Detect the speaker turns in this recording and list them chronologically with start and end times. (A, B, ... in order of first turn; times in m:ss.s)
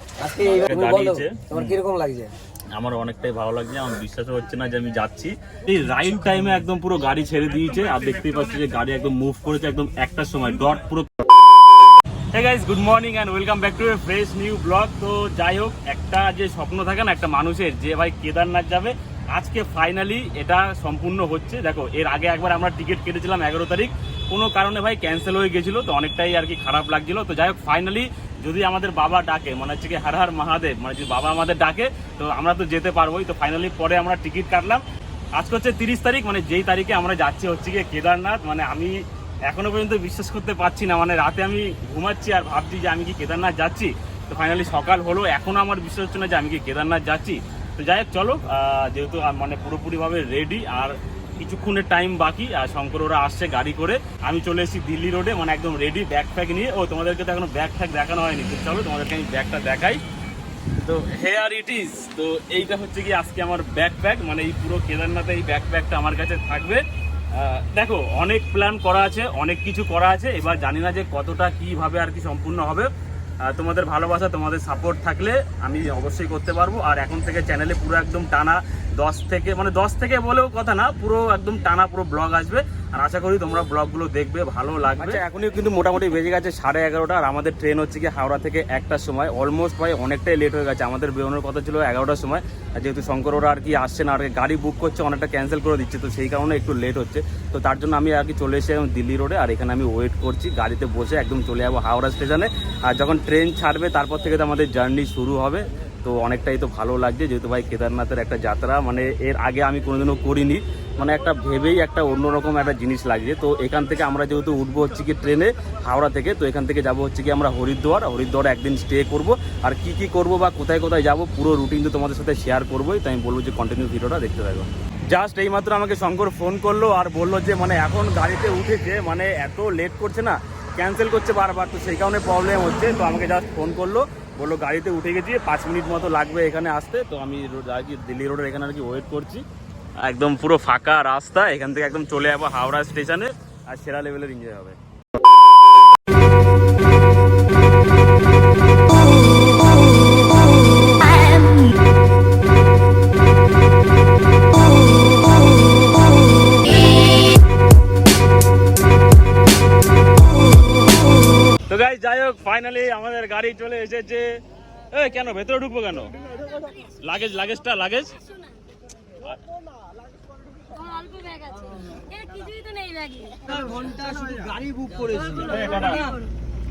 0:00.2-0:02.3 A
0:00.4-0:01.8 B
0:02.7-0:11.2 B
0:12.3-0:34.8 B
0:35.4-1:00.0 B
1:00.8-1:06.8 B
1:07.3-1:12.9 B
1:13.4-2:19.4 B
2:20.0-2:24.8 B
2:41.7-2:44.4 B
2:44.9-2:46.1 B
2:46.2-2:47.0 C
2:47.0-2:48.2 B
2:48.0-2:48.6 C
2:50.7-2:53.6 C
2:53.5-2:56.2 A
2:55.1-2:56.3 C
2:55.4-2:56.0 B